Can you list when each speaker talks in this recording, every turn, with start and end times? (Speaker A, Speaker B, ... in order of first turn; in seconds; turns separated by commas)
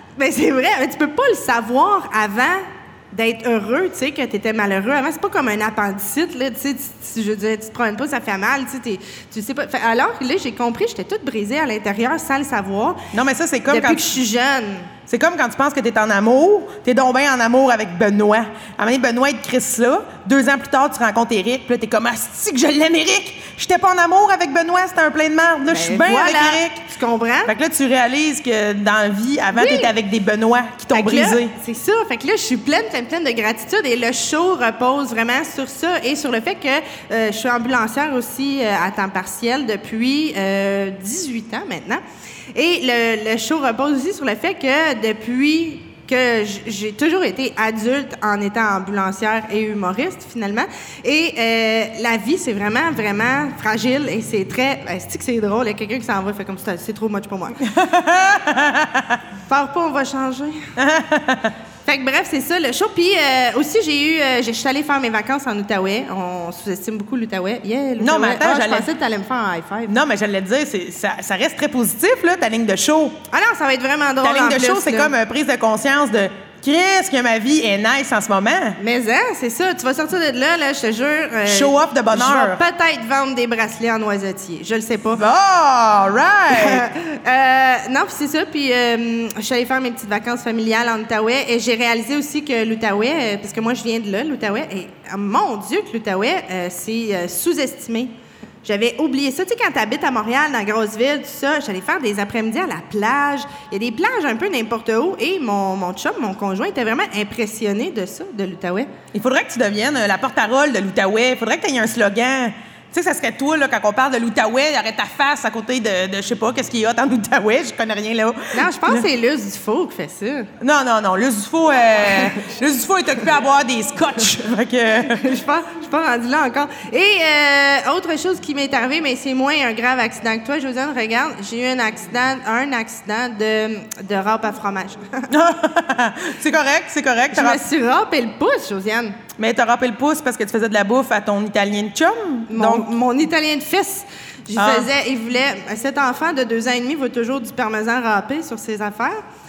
Speaker A: 0.2-13.0, Speaker B: 13.1-14.1, Speaker A: 13.7-14.9, Speaker B: 15.1-26.8, Speaker A: 25.7-27.5, Speaker B: 27.4-31.5, Speaker A: 29.5-29.9, Speaker A: 30.9-42.0, Speaker A: 42.5-57.6, Speaker B: 57.6-59.2, Speaker A: 59.5-60.6, Speaker B: 60.8-61.5, Speaker A: 61.9-69.9, Speaker B: 68.0-68.9, Speaker B: 69.8-73.2, Speaker A: 73.3-75.1, Speaker B: 74.2-78.8, Speaker A: 78.8-85.2, Speaker B: 81.5-82.6, Speaker B: 85.2-86.8, Speaker A: 86.5-108.9, Speaker B: 109.1-119.0, Speaker A: 118.5-120.5, Speaker B: 120.6-125.2, Speaker A: 125.1-135.3, Speaker B: 135.3-137.6, Speaker A: 137.3-139.2, Speaker B: 139.4-142.9, Speaker A: 142.5-149.2, Speaker B: 144.6-144.9